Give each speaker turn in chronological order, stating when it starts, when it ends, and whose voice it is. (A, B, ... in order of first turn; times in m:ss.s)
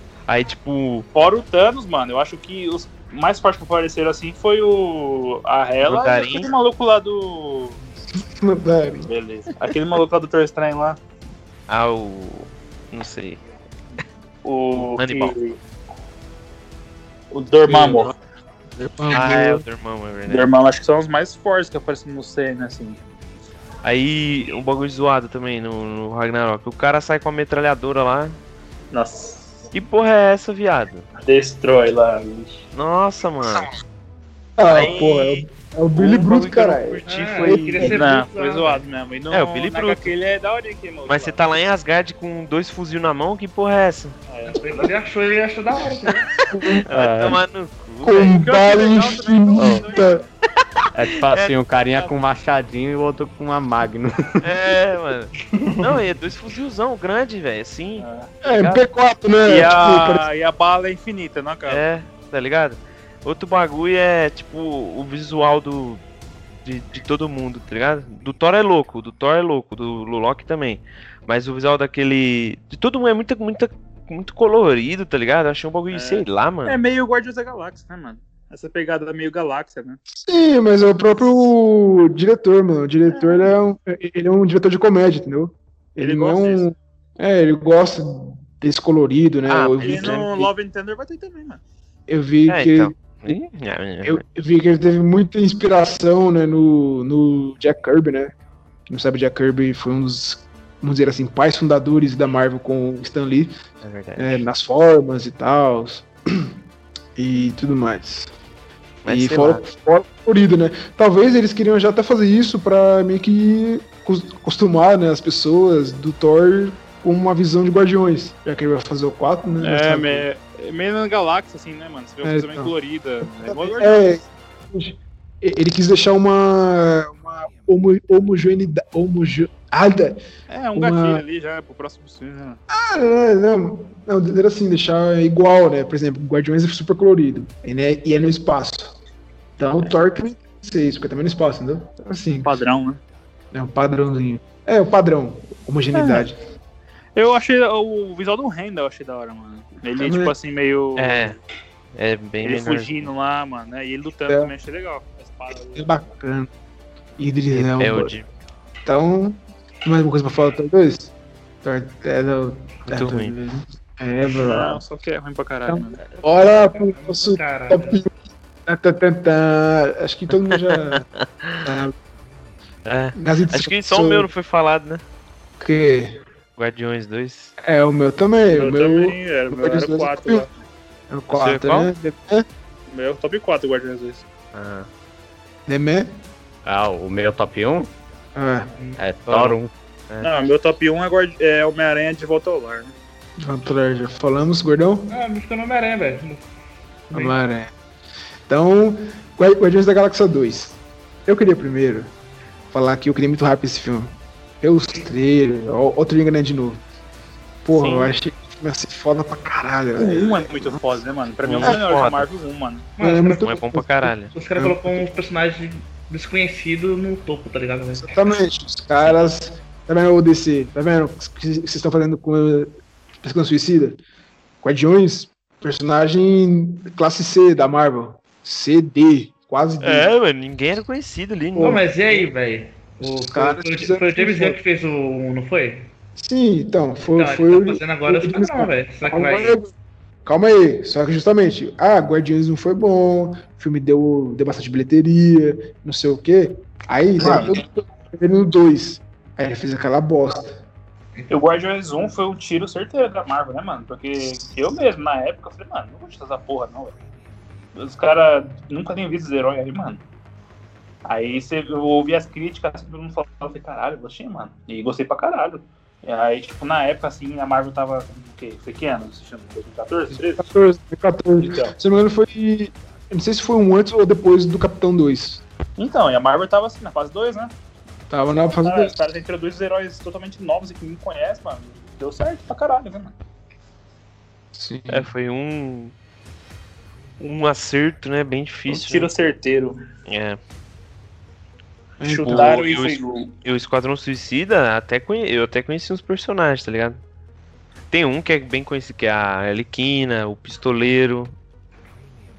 0:00.3-0:01.1 A
0:01.1-0:07.8 B
0:05.8-0:06.5 A
0:08.2-0:09.1 C
0:09.0-0:11.0 B
0:11.7-0:13.4 A
0:14.4-0:15.6 B
0:14.8-0:15.4 A
0:17.3-0:18.1 B
0:17.7-0:18.1 C
0:18.8-0:19.6 C
0:19.1-0:20.5 A
0:20.3-0:23.0 B
0:23.8-0:28.4 A
0:28.9-0:29.7 B
0:29.7-0:31.1 A
0:31.2-0:32.7 B
0:32.7-0:33.7 A
0:34.6-0:38.0 C
0:34.7-0:35.0 A
0:34.7-0:35.4 B
0:35.9-0:38.0 A
0:37.0-0:38.8 D
0:37.8-0:41.6 B
0:39.3-0:40.1 A
0:41.1-0:44.2 A
0:44.3-0:44.9 B
0:44.5-0:46.3 D
0:46.5-0:46.9 C
0:46.7-0:48.4 A
0:46.9-0:47.4 E
0:48.0-0:50.2 C
0:48.3-0:50.3 B
0:49.6-0:49.9 E
0:51.0-0:54.5 E
0:51.3-0:51.6 A
0:54.4-0:58.8 A
0:58.0-0:58.3 B
0:58.4-1:00.2 C
0:59.5-1:01.8 B
1:01.7-1:06.0 A
1:06.6-1:16.8 A
1:15.9-1:20.0 B
1:20.2-1:30.5 C
1:23.1-1:23.5 B
1:26.0-1:26.7 B
1:29.5-1:30.3 A
1:29.8-1:31.6 B
1:32.1-1:33.4 C
1:32.5-1:34.2 A
1:34.0-1:38.3 C
1:38.9-1:43.6 C
1:43.8-1:44.4 A
1:44.2-1:46.5 C
1:47.2-1:48.3 C
1:49.0-1:49.6 A
1:49.1-2:00.3 C
1:59.6-2:04.2 B
2:02.2-2:02.7 C
2:03.2-2:10.2 C
2:10.5-2:12.6 B
2:10.8-2:11.2 C
2:12.7-2:19.0 C
2:19.6-2:22.5 C
2:22.4-2:23.0 B
2:23.5-2:26.4 C
2:25.9-2:26.3 B
2:27.2-2:31.4 B
2:30.0-2:30.3 C
2:31.0-2:31.4 A
2:32.0-2:33.1 A
2:32.4-2:35.9 B
2:35.8-2:36.5 C
2:37.2-2:38.1 C
2:37.5-2:38.3 A
2:38.8-2:41.1 C
2:41.6-2:44.8 C
2:42.9-2:43.3 A
2:44.3-2:46.0 B
2:45.7-2:48.1 C
2:46.4-2:48.0 D
2:48.7-2:51.0 C
2:50.4-2:51.7 A
2:51.6-2:51.9 C
2:52.9-2:55.0 A
2:53.2-2:54.3 C
2:55.6-2:56.2 C
2:56.6-2:57.5 A
2:57.6-3:00.5 C
2:58.5-3:00.5 B
3:01.1-3:02.5 C
3:01.3-3:01.9 A
3:02.9-3:04.2 B
3:04.5-3:04.9 A
3:05.7-3:06.1 C
3:06.6-3:07.9 E
3:08.4-3:08.7 C
3:08.7-3:09.0 D
3:09.0-3:09.7 E
3:09.3-3:09.6 A
3:10.2-3:13.0 B
3:13.4-3:15.2 C
3:15.1-3:16.4 D
3:17.1-3:17.4 D
3:17.1-3:17.7 C
3:18.5-3:22.1 C
3:22.7-3:26.8 C
3:27.6-3:31.0 C
3:27.7-3:28.1 B
3:30.0-3:32.9 B
3:31.4-3:32.3 A
3:33.0-3:33.5 D
3:33.0-3:35.1 C
3:33.4-3:34.3 A
3:34.3-3:38.2 D
3:38.0-3:44.0 C
3:44.6-3:50.1 C
3:49.8-3:51.8 A
3:51.6-3:51.8 C
3:51.6-3:55.9 D
3:53.0-3:54.6 C
3:56.2-3:59.7 C
3:57.1-3:59.6 D
4:00.2-4:10.6 C
4:07.2-4:07.6 B
4:07.2-4:07.6 D
4:11.3-4:17.0 B
4:17.8-4:20.0 B
4:21.1-4:30.5 B
4:30.1-4:35.4 C
4:31.4-4:31.8 B
4:35.8-4:37.5 B
4:38.1-4:39.0 C
4:38.5-4:43.2 B
4:44.6-4:45.1 C
4:44.9-4:45.9 A
4:47.2-4:49.1 A
4:48.7-4:49.8 B
4:50.1-4:50.4 A
4:52.0-4:52.6 C
4:52.0-4:53.3 B
4:52.2-4:57.0 A
4:57.9-5:01.3 A